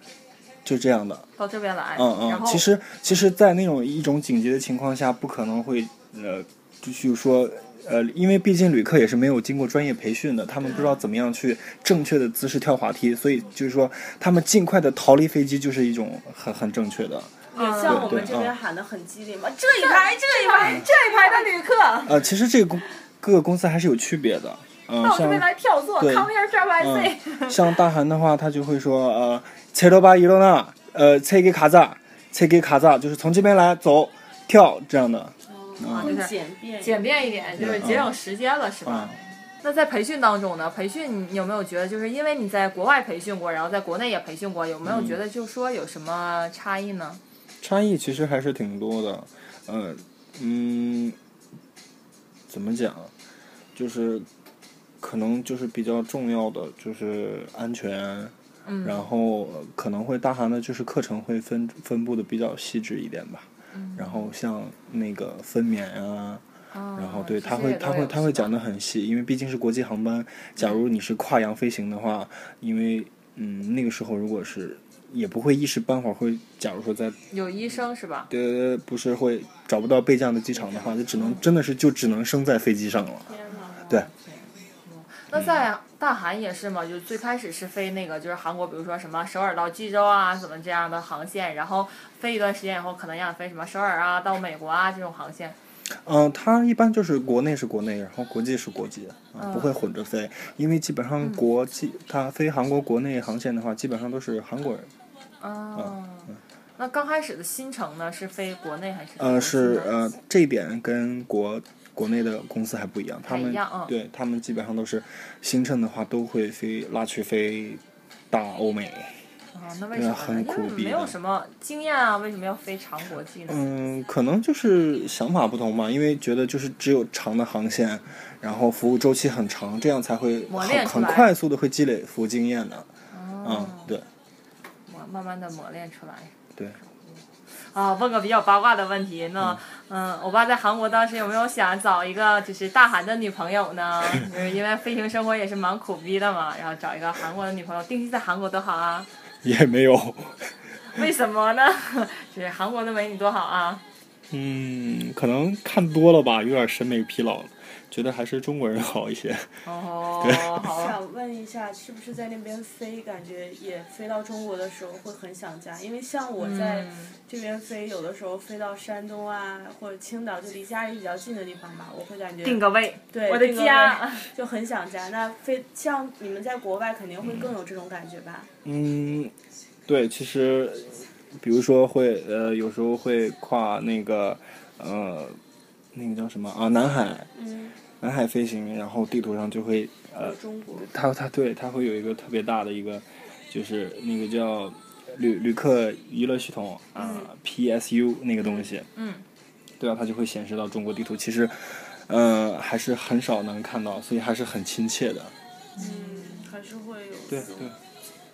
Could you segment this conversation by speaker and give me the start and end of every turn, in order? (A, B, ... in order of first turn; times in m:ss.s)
0:00.6-0:01.3 A
0:01.4-0:02.7 B
0:02.0-0:18.5 A
0:17.5-0:21.5 C
0:17.5-0:18.2 B
0:19.8-0:22.1 B
0:22.0-0:25.5 A
0:25.0-0:27.7 B
0:26.0-0:36.1 A
0:35.5-0:37.7 C
0:35.9-0:47.2 B
0:37.6-0:38.1 A
0:38.8-0:39.2 A
0:44.8-0:45.2 A
0:47.6-0:51.2 A
0:52.5-0:53.1 A
0:53.8-0:54.3 A
0:55.0-1:06.4 A
0:58.7-0:59.1 B
1:03.7-1:04.3 B
1:06.7-1:08.5 B
1:07.0-1:17.2 A
1:17.3-1:18.3 B
1:18.3-1:23.3 A
1:21.2-1:21.4 B
1:23.3-1:23.9 C
1:23.8-1:35.6 B
1:25.3-1:25.7 A
1:36.0-1:44.9 A
1:39.4-1:39.8 B
1:45.4-1:49.9 B
1:49.2-1:59.2 A
1:53.2-1:53.9 B
1:59.5-2:03.6 B
1:59.9-2:01.2 A
2:03.5-2:12.9 A
2:10.5-2:11.3 B
2:13.1-2:13.9 B
2:13.4-2:14.1 A
2:14.9-2:29.1 B
2:29.4-2:30.6 A
2:30.9-2:33.8 B
2:34.3-2:39.5 A
2:39.6-2:41.0 B
2:40.2-2:40.6 A
2:40.7-2:58.5 C
2:46.4-2:47.1 B
2:52.4-2:54.3 B
2:58.6-2:59.3 A
2:59.9-3:05.4 A
3:05.9-3:07.3 A
3:07.4-3:07.8 C
3:08.0-3:18.9 A
3:10.2-3:10.9 C
3:17.0-3:17.3 C
3:19.0-3:19.2 B
3:19.8-3:25.3 A
3:25.8-3:26.5 B
3:25.8-3:27.7 C
3:27.3-3:27.8 A